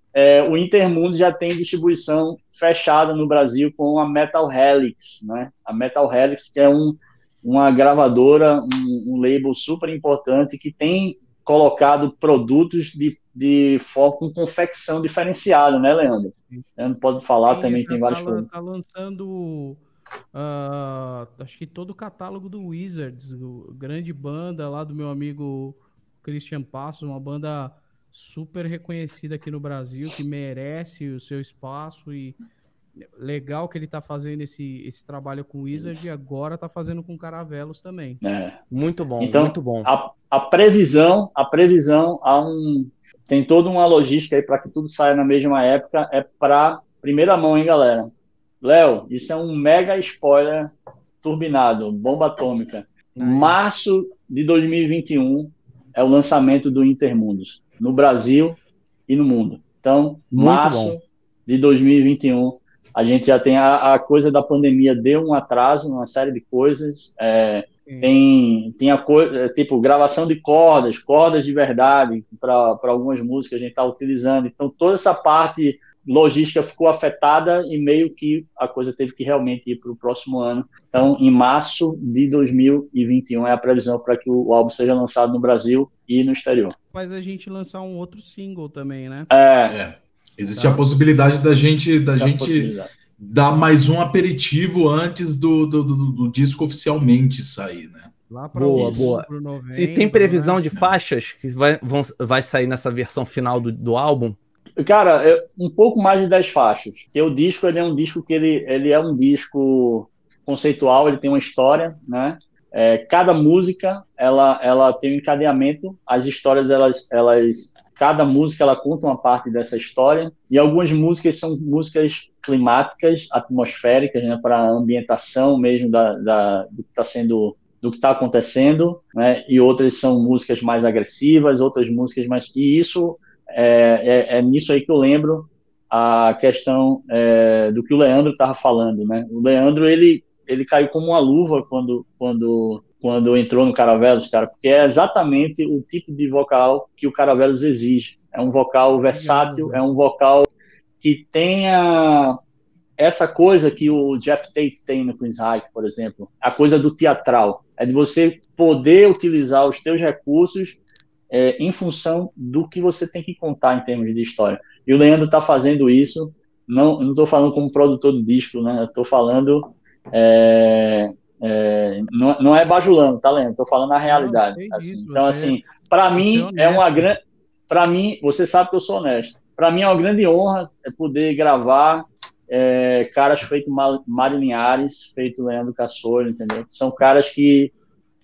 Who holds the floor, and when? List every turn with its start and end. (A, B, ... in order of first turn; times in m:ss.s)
0:00.1-0:18.5 A
0:16.4-0:16.6 B
0:17.4-0:19.8 B
0:20.3-0:32.4 B
0:33.2-0:38.2 B
0:38.2-0:38.6 A
0:38.7-0:39.9 C
0:39.2-0:48.1 A
0:48.6-0:50.7 A
0:51.2-1:26.8 A
0:53.2-0:53.6 B
1:00.4-1:01.0 C
1:26.9-1:29.3 B
1:29.3-1:29.8 A
1:29.7-1:38.1 D
1:30.5-1:30.8 B
1:32.2-1:32.9 A
1:38.3-1:40.6 B
1:38.6-1:44.4 C
1:38.8-1:39.1 D
1:44.8-2:30.5 A
2:29.1-2:29.8 B
2:31.0-2:32.4 A
2:33.0-2:40.8 A
2:41.3-3:07.7 A
2:54.0-2:55.6 B
2:56.2-2:57.1 B